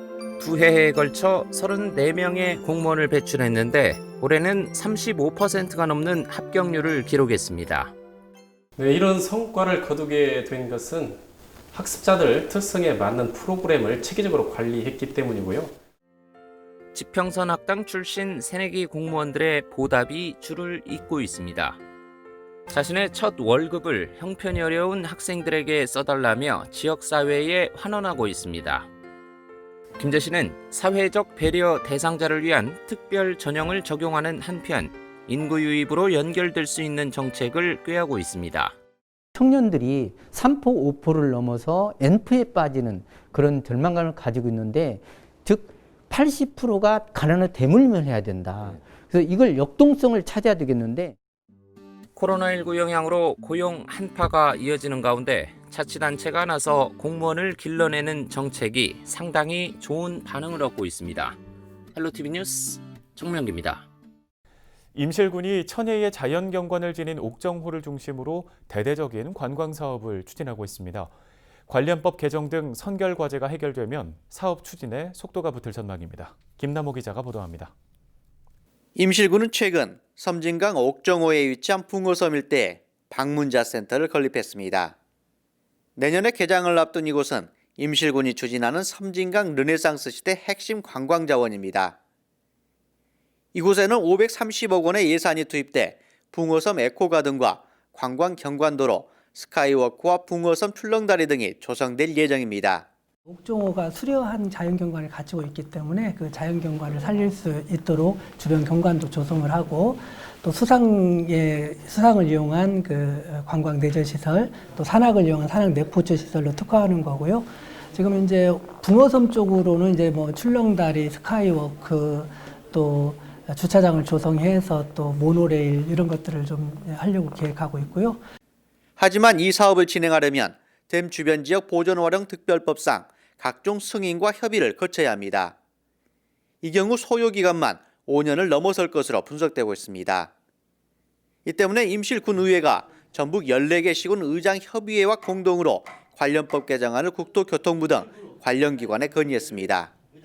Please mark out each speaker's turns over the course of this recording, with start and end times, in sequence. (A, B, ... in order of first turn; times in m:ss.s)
0:00.4-0:07.9 A
0:08.8-0:11.2 B
0:11.7-0:15.7 B
0:16.9-0:21.8 A
0:22.7-0:28.9 A
0:30.0-0:38.8 A
0:39.4-0:51.1 C
0:52.1-1:01.4 A
1:01.9-1:03.8 A
1:04.9-1:11.1 D
1:11.7-1:17.7 D
1:19.0-1:24.9 E
1:26.0-1:31.9 E
1:33.5-1:42.8 E
1:43.2-2:08.2 F
2:09.0-2:15.5 E
2:16.6-2:20.3 E
2:21.4-2:29.9 E